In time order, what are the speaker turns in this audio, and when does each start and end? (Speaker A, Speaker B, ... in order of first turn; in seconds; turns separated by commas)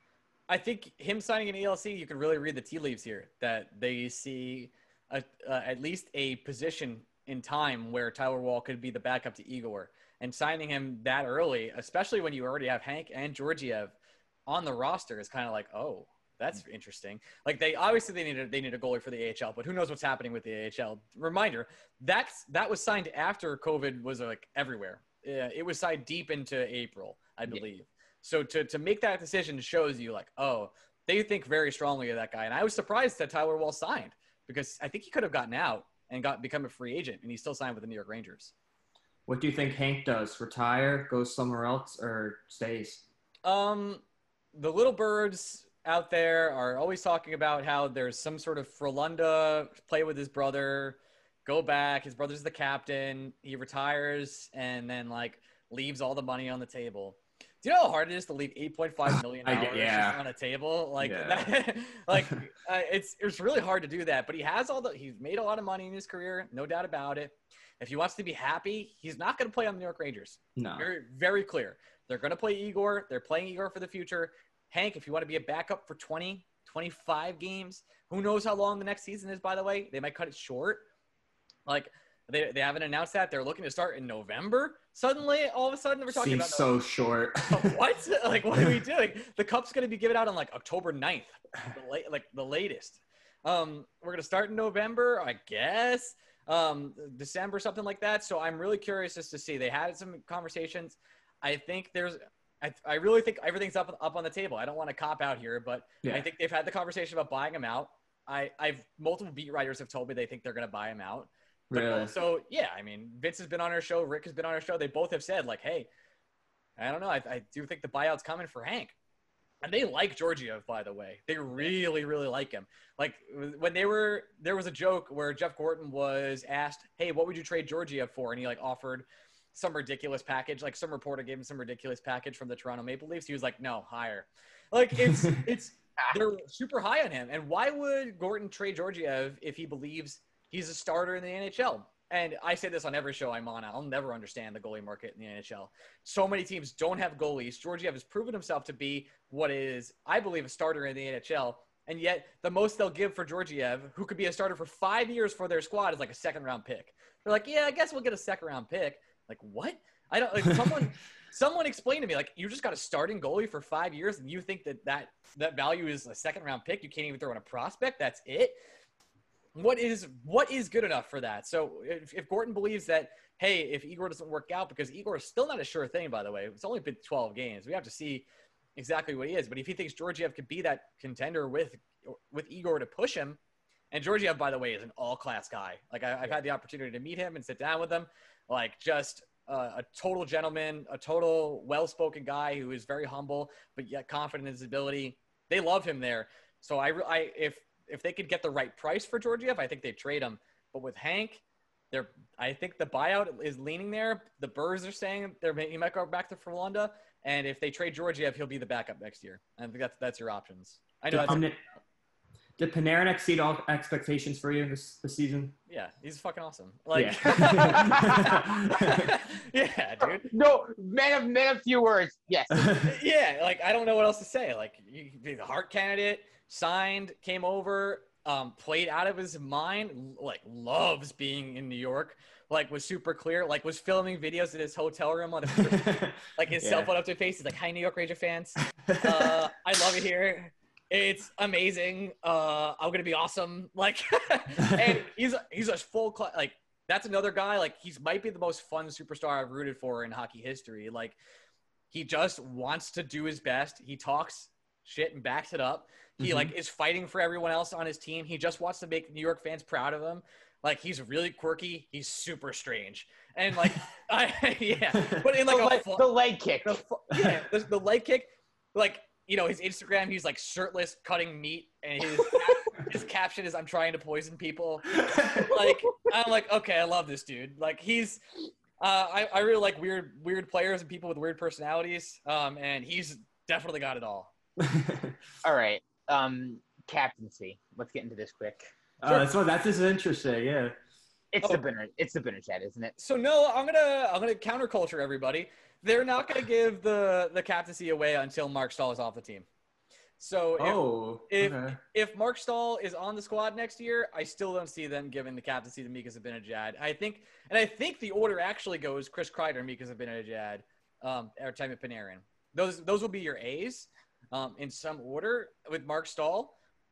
Speaker A: 0.5-13.9, Speaker A: 14.5-38.5, Speaker B: 39.3-43.0, Speaker A: 43.4-80.9, Speaker B: 59.4-60.2, Speaker B: 61.0-61.5, Speaker B: 62.1-62.4, Speaker B: 70.5-70.9, Speaker A: 81.7-86.7, Speaker B: 86.1-87.7, Speaker A: 87.4-115.9, Speaker B: 111.7-112.1, Speaker A: 116.8-119.0, Speaker A: 119.6-168.6, Speaker A: 169.5-183.4, Speaker A: 183.9-211.4, Speaker B: 211.1-211.6, Speaker B: 212.6-215.5, Speaker A: 215.7-220.3, Speaker B: 216.9-219.1, Speaker C: 217.9-218.4, Speaker C: 220.0-222.8, Speaker B: 222.5-222.9, Speaker A: 222.8-251.2, Speaker B: 235.6-236.9, Speaker B: 238.9-239.3, Speaker A: 251.9-266.1, Speaker B: 256.2-256.5, Speaker C: 265.4-266.8, Speaker A: 266.6-278.2, Speaker C: 272.1-272.6, Speaker B: 275.0-275.5, Speaker A: 278.8-284.3, Speaker B: 284.6-285.2, Speaker C: 285.4-288.7, Speaker B: 289.0-290.7, Speaker C: 291.3-292.9, Speaker A: 293.0-299.5, Speaker A: 300.2-316.6, Speaker B: 300.6-301.8